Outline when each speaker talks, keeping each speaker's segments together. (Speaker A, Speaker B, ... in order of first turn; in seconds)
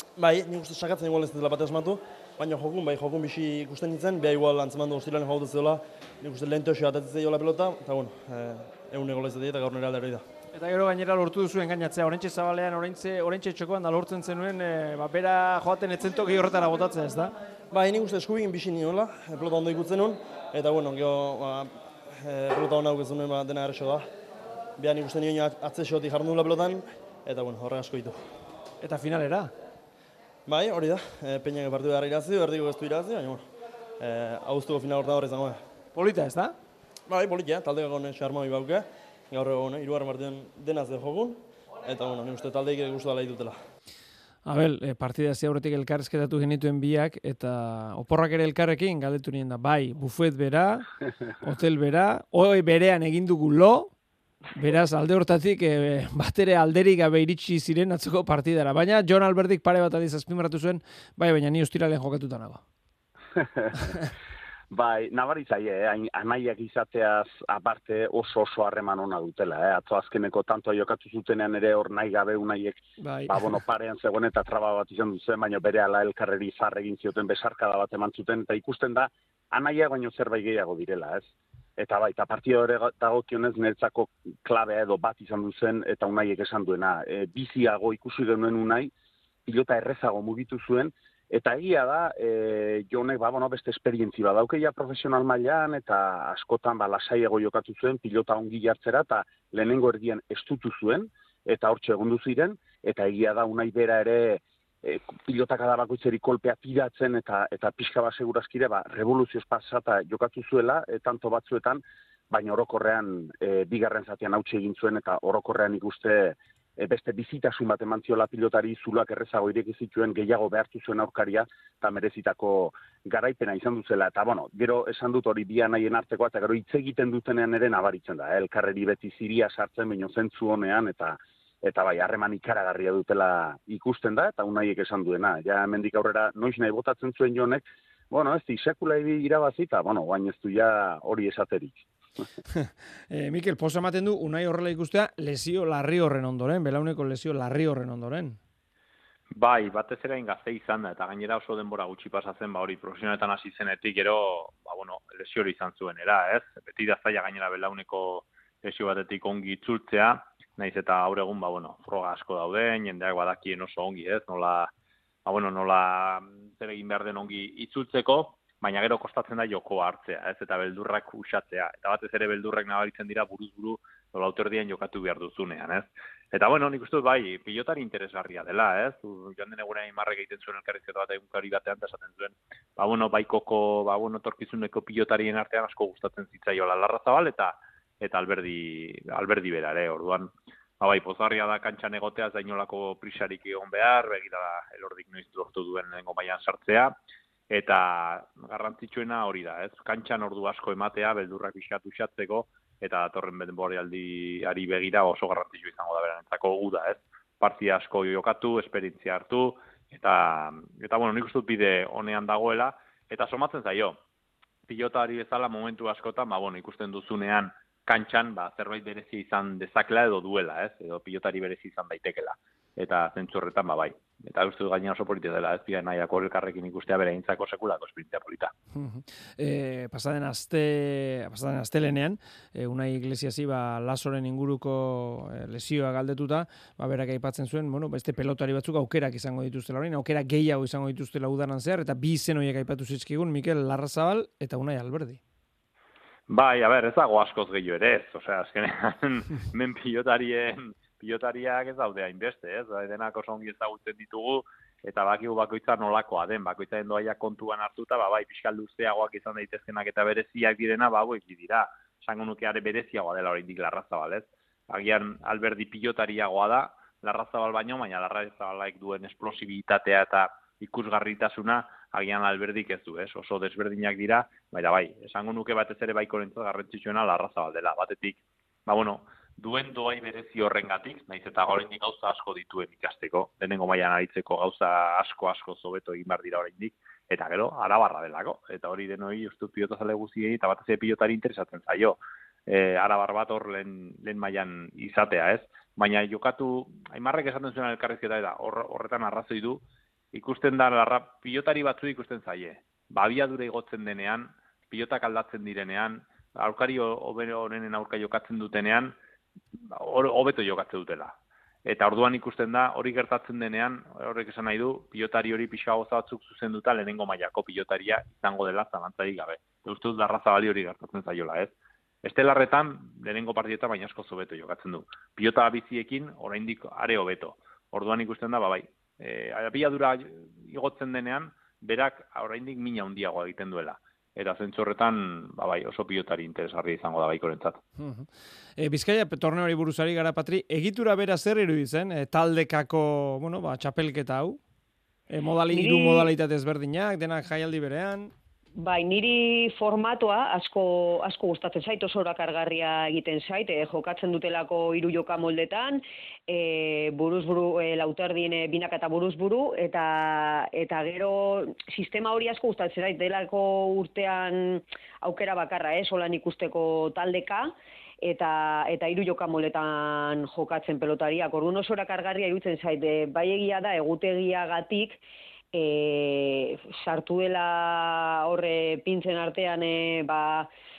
Speaker A: 0.2-10.2, 17.7-24.1, 24.8-28.3, 30.4-35.6, 37.1-43.6
Speaker B: 10.5-17.3, 28.8-29.5, 35.9-36.5, 44.4-50.9, 51.4-53.9, 54.5-62.6, 73.0-73.5, 142.5-148.4, 228.7-245.2, 337.8-344.4, 345.1-348.1
Speaker C: 63.3-63.9, 64.7-88.9, 89.5-141.8
Speaker D: 149.3-164.7, 165.2-196.9, 197.5-214.0, 214.7-228.5, 246.3-308.9, 309.5-337.6
Speaker E: 345.5-346.1, 348.6-375.0, 375.5-380.5